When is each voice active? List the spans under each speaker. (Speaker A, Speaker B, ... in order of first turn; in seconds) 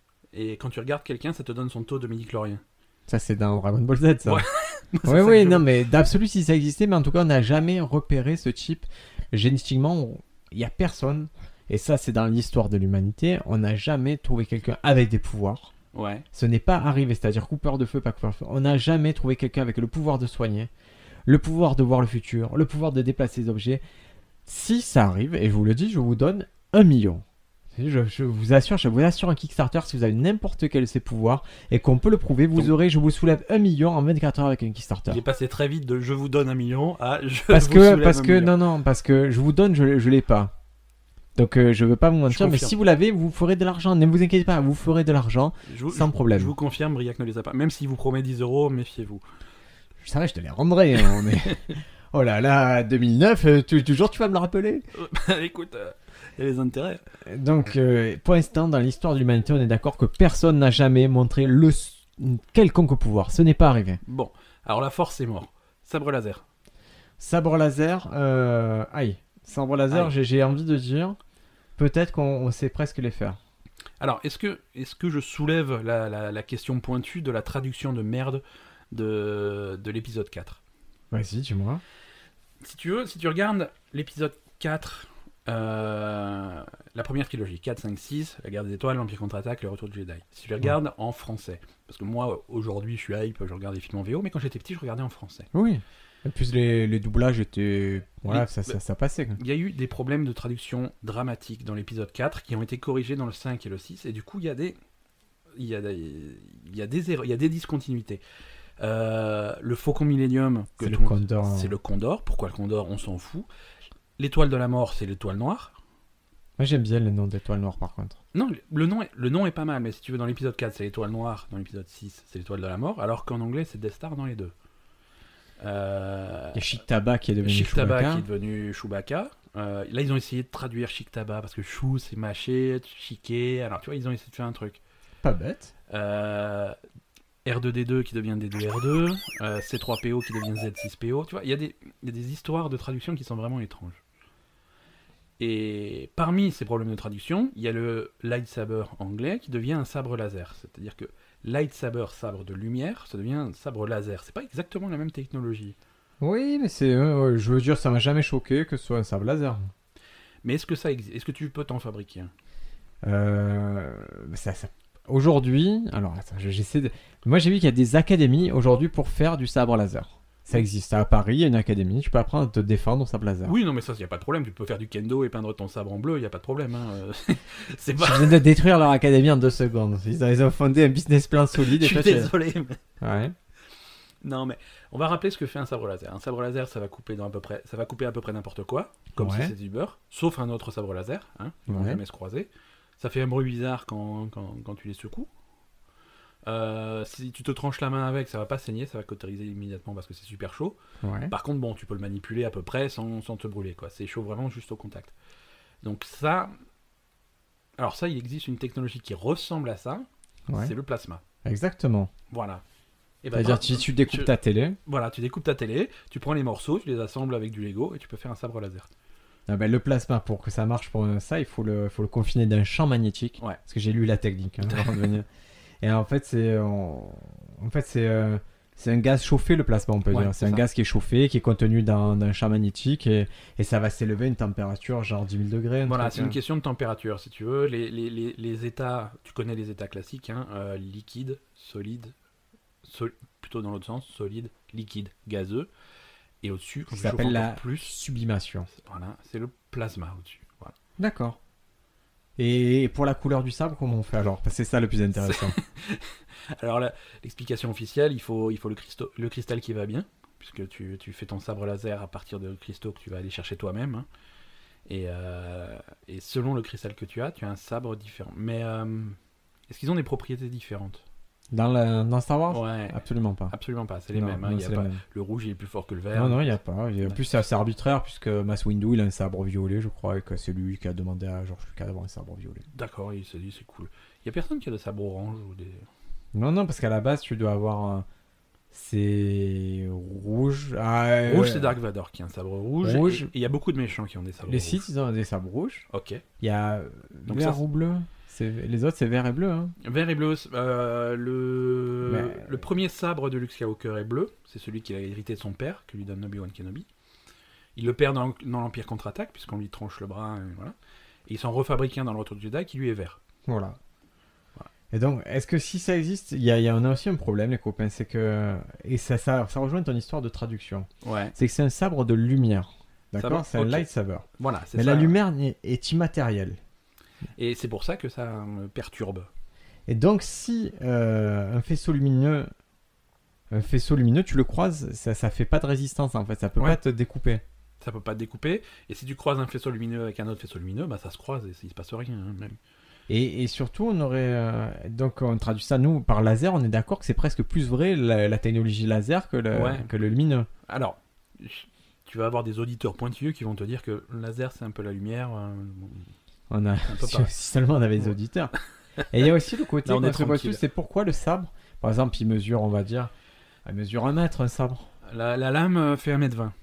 Speaker A: 0.3-2.6, 4.2-5.6, 15.9-16.2, 35.1-38.5, 42.3-42.7, 45.7-49.2, 54.9-57.0, 64.0-66.4, 74.0-80.6, 82.6-95.5, 98.2-98.7, 99.4-104.8, 105.5-108.2, 108.8-113.5, 114.2-115.7, 118.3-124.5, 125.6-126.6, 127.4-134.8, 135.9-136.7, 137.4-144.0, 145.4-155.8, 160.4-162.3, 173.4-178.4, 181.6-182.8, 184.2-195.3, 196.4-200.8, 201.3-205.1, 205.8-206.5, 207.8-211.2, 212.3-212.6, 213.2-214.3, 214.8-218.9, 224.6-225.1, 230.1-230.7, 235.8-242.1, 242.8-245.7, 246.4-247.9, 248.7-250.7, 255.2-264.1, 264.9-269.1, 269.7-271.0, 272.5-273.0, 273.5-277.2, 282.7-285.9, 291.2-294.9, 295.9-296.2, 297.3-297.6, 299.8-306.9, 307.8-310.7, 311.3-313.2, 321.0-321.3, 323.2-323.9, 324.4-325.1, 327.4-329.3, 337.8-342.6, 349.5-349.9, 350.7-356.1, 356.8-357.3, 359.8-360.6, 365.1-366.5
Speaker B: 3.1-4.4, 5.0-15.7, 16.3-20.7, 21.3-23.8, 24.4-35.2, 37.5-40.5, 41.4-46.5, 50.0-54.8, 57.2-64.0, 67.2-71.2, 71.8-73.4, 81.1-81.8, 95.5-99.4, 110.8-111.7, 116.6-118.2, 126.5-128.2, 135.2-135.7, 156.2-159.7, 163.0-173.5, 178.0-182.3, 183.0-183.3, 189.2-189.5, 191.7-192.0, 201.0-201.3, 210.5-210.7, 211.4-212.1, 213.3-214.8, 219.5-225.3, 225.8-236.4, 246.9-248.7, 251.0-251.4, 252.4-255.6, 271.5-273.5, 274.1-275.0, 276.1-282.6, 286.3-288.1, 288.7-291.7, 292.8-293.3, 294.4-295.8, 296.4-299.7, 302.0-302.6, 313.4-313.8, 314.9-326.6, 329.9-332.5, 333.5-337.4, 343.1-350.5, 356.5-358.5, 359.1-363.1, 363.6-364.9